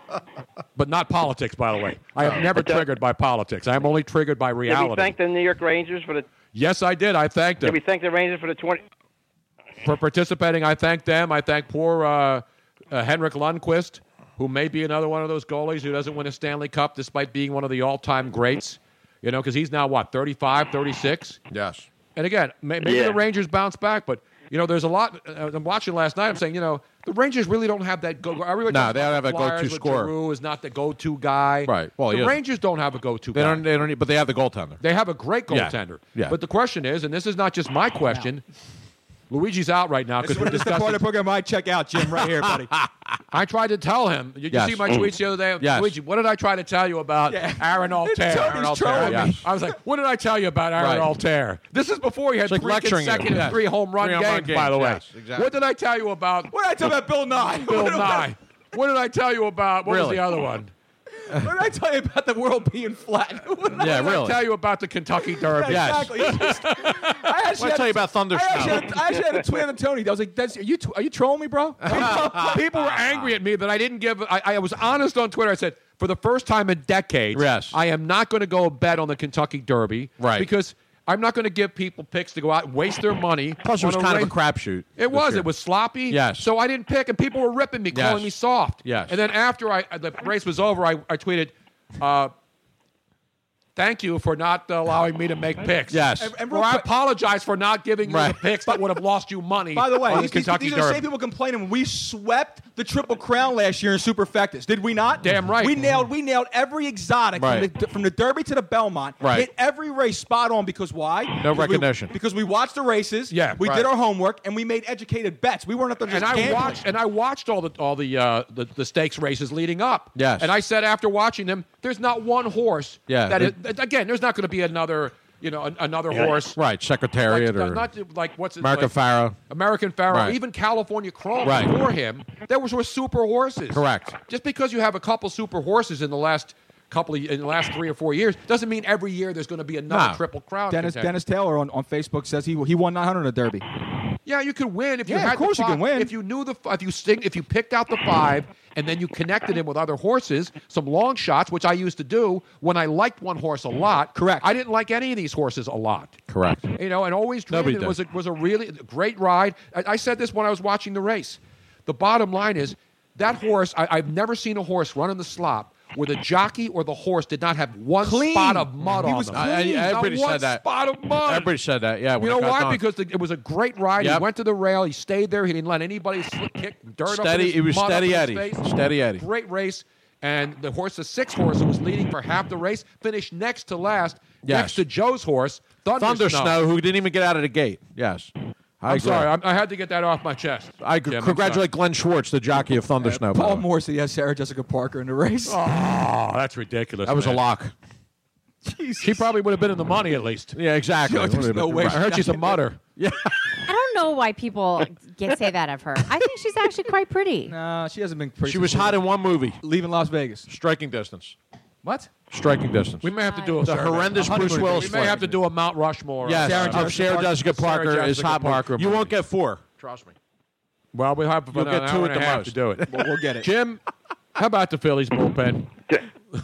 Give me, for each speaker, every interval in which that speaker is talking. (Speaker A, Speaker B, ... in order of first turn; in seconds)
Speaker A: 0.8-5.1, 6.5-7.8, 9.8-21.4, 22.1-33.7, 34.8-38.4, 39.3-41.1, 43.3-56.5, 57.5-60.7, 63.7-67.2, 71.9-84.3, 85.0-92.3, 93.8-101.0, 105.2-106.1, 113.3-113.6, 116.1-126.6, 127.2-128.9, 129.5-141.1, 144.2-156.2, 156.8-171.5, 172.2-186.6, 188.9-191.6, 195.4-197.4, 199.0-200.6, 201.7-202.8, 213.0-219.1, 220.9-223.8, 224.3-225.7
Speaker B: 4.7-6.3, 7.6-8.8, 22.8-23.2
Speaker C: 21.5-21.9, 28.7-30.1, 31.6-32.4, 33.3-34.8, 35.5-36.4, 44.5-45.0, 45.6-46.0, 48.8-49.4, 50.8-51.1, 52.5-55.5, 59.9-60.2, 63.8-64.4, 65.7-66.2, 67.6-68.9, 71.8-72.6, 77.3-77.8, 80.2-80.5, 83.6-85.5, 86.1-86.5, 87.9-89.2, 95.9-96.3, 98.0-98.4, 107.3-107.7, 109.2-109.5, 111.4-112.1, 113.6-113.9, 120.1-120.5, 123.1-123.5, 126.1-127.8, 128.6-129.4, 130.1-130.3, 131.4-131.7, 133.7-134.2, 139.9-140.2, 156.3-156.7, 157.5-158.0, 169.3-170.6, 171.2-172.8, 174.0-174.2, 177.1-179.2, 184.4-184.8, 186.0-189.3, 190.8-193.6, 197.1-197.7, 200.5-202.1, 203.0-203.3, 208.4-209.6, 210.4-211.3, 212.3-213.1, 213.6-215.3, 216.2-220.1, 221.5-222.6
Speaker D: 40.2-42.7, 47.3-49.4, 56.5-58.3, 61.3-64.1, 65.5-73.0, 96.2-96.9, 99.7-116.8, 140.7-143.6, 145.1-146.1, 154.1-154.4, 168.0-169.6, 193.0-195.6, 198.6-199.3, 201.0-202.6, 207.4-209.0, 209.6-210.5, 211.8-212.1, 214.2-215.3, 216.4-217.3, 222.8-223.5
Speaker E: 203.6-207.5, 213.2-213.6